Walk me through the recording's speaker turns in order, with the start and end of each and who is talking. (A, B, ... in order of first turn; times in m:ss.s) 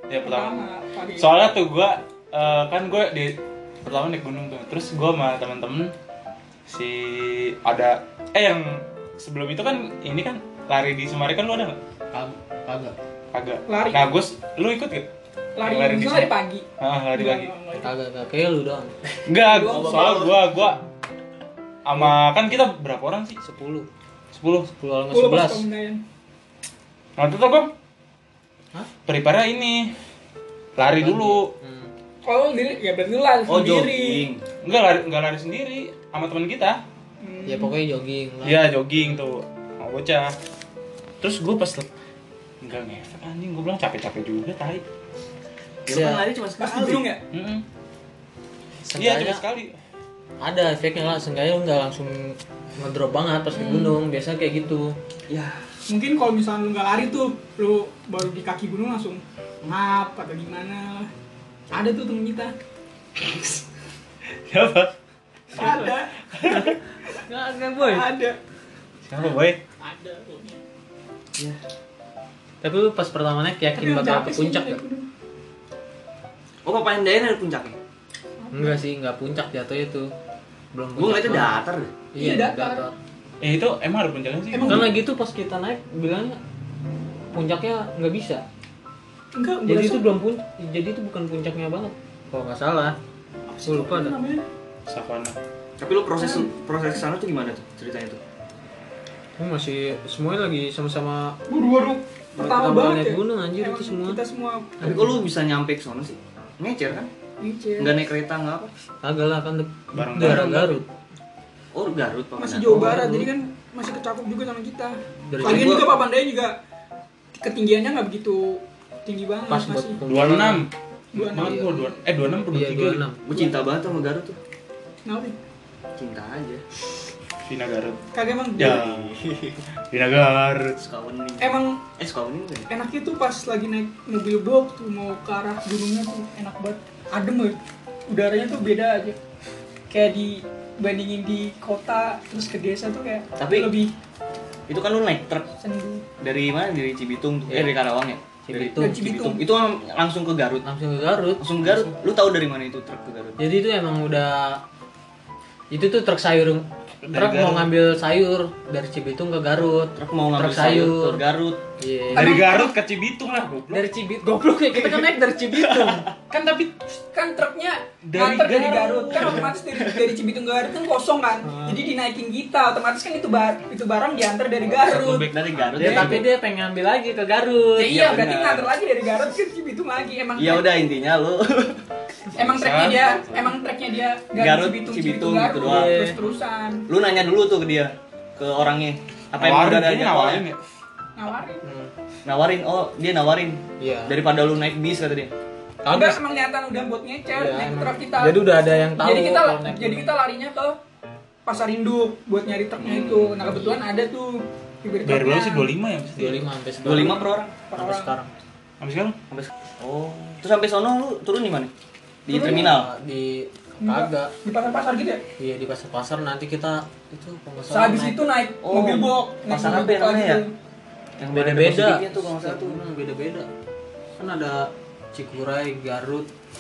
0:00.1-0:00.6 A
0:00.2-0:01.4 B
0:01.2-0:05.9 A
0:06.7-0:11.8 A
0:12.1-0:13.0 C
0:13.3-0:15.1 A
0:13.7-0:14.1 B
0:15.6-0:17.9 B
0:15.6-0:17.5 A
0:17.8-0:18.9 C
0:19.2-0:20.8 A
0:19.3-0:20.3 B
0:19.7-0:20.5 D
0:21.8-0:23.4 A
0:23.4-0:23.9 C
0:24.3-0:24.7 A
0:24.8-0:25.6 C
0:25.1-0:26.0 B
0:27.2-0:27.7 A
0:29.1-0:30.0 A
0:30.8-0:31.5 A
0:30.9-0:31.9 C
0:32.2-0:34.2 B
0:33.5-0:34.4 D
0:34.6-0:36.8 A
0:37.2-0:37.8 B
0:37.5-0:38.7 C
0:38.4-0:40.4 A
0:41.2-0:41.9 A
0:42.6-0:44.8 A
0:45.9-0:47.1 D
0:45.9-0:46.2 C
0:46.6-0:47.2 B
0:47.3-0:47.6 A
0:48.9-0:49.4 C
0:48.9-0:49.8 A
0:50.4-0:55.0 C
0:53.5-0:54.0 B
0:55.3-0:55.6 D
0:55.9-1:01.1 B
1:01.7-1:02.5 B
1:04.3-1:04.9 A
1:05.5-1:06.8 A
1:05.5-1:07.2 B
1:07.3-1:08.1 C
1:07.8-1:08.4 B
1:09.1-1:09.6 A
1:09.8-1:10.6 B
1:12.6-1:14.8 C
1:13.8-1:15.1 B
1:16.6-1:17.8 D
1:18.4-1:18.8 B
1:18.5-1:20.1 C
1:20.7-1:21.6 C
1:21.0-1:21.9 D
1:22.1-1:22.9 C
1:22.2-1:22.9 B
1:23.4-1:24.9 A
1:24.5-1:24.9 B
1:24.6-1:26.4 C
1:27.3-1:28.4 C
1:29.3-1:30.1 B
1:29.7-1:33.0 C
1:33.5-1:34.4 B
1:33.6-1:34.1 C
1:34.9-1:35.4 A
1:35.8-1:38.2 D
1:36.2-1:36.5 B
1:39.4-1:41.4 C
1:41.5-1:45.1 B
1:42.4-1:44.2 C
1:44.8-1:47.1 D
1:47.4-1:47.9 B
1:47.8-1:48.7 D
1:49.0-1:50.8 C
1:49.9-1:50.8 A
1:51.7-1:52.9 D
1:52.4-1:56.6 B
1:52.7-1:53.3 C
1:55.3-1:55.9 C
1:55.4-1:55.9 D
1:57.4-2:00.0 B
1:59.5-2:00.7 C
2:00.0-2:03.0 A
2:01.1-2:02.0 B
2:01.4-2:01.7 C
2:02.5-2:03.2 C
2:03.2-2:04.4 D
2:05.0-2:05.4 B
2:06.0-2:06.6 D
2:07.4-2:08.0 A
2:08.1-2:08.8 B
2:08.6-2:09.1 A
2:08.6-2:09.6 D
2:09.9-2:10.8 A
2:10.8-2:12.7 D
2:11.4-2:11.8 B
2:12.7-2:19.2 B
2:19.9-2:23.9 B
2:23.4-2:23.8 D
2:24.7-2:25.5 D
2:25.6-2:26.0 B
2:26.2-2:30.6 D
2:28.5-2:29.0 C
2:28.8-2:29.4 B
2:30.6-2:31.4 C
2:31.4-2:33.4 D
2:31.6-2:32.0 A
2:33.4-2:34.6 C
2:35.7-2:41.2 C
2:37.0-2:37.7 A
2:39.9-2:41.6 D
2:41.8-2:42.5 C
2:42.1-2:42.8 B
2:42.1-2:43.9 A
2:43.7-2:46.1 C
2:44.8-2:46.1 D
2:46.3-2:55.3 B
2:48.0-2:49.5 A
2:51.4-2:51.9 C
2:54.6-2:56.3 A
2:54.7-2:56.3 D
2:55.8-2:58.0 C
2:57.8-3:00.7 B
2:57.9-2:58.7 D
3:00.4-3:01.8 D
3:02.4-3:06.9 B
3:02.4-3:03.5 A
3:04.4-3:06.2 D
3:05.6-3:06.2 C
3:06.9-3:10.5 D
3:09.4-3:10.6 A
3:11.2-3:11.6 B
3:11.6-3:11.9 C
3:12.2-3:15.3 D
3:13.8-3:14.2 C
3:15.8-3:16.2 C
3:15.9-3:18.4 B
3:17.3-3:20.1 C
3:19.0-3:20.8 B
3:21.4-3:25.7 B
3:22.8-3:23.6 D
3:25.0-3:26.4 A
3:26.2-3:28.3 C
3:26.8-3:27.5 D
3:26.9-3:28.1 B
3:28.8-3:29.2 A
3:29.3-3:31.7 D
3:32.2-3:32.9 D
3:32.3-3:32.8 B
3:32.3-3:34.3 C
3:33.8-3:35.2 B
3:35.4-3:38.2 C
3:37.7-3:40.5 B
3:38.6-3:40.4 D
3:41.2-3:42.8 D
3:41.3-3:43.5 C
3:44.2-3:46.3 C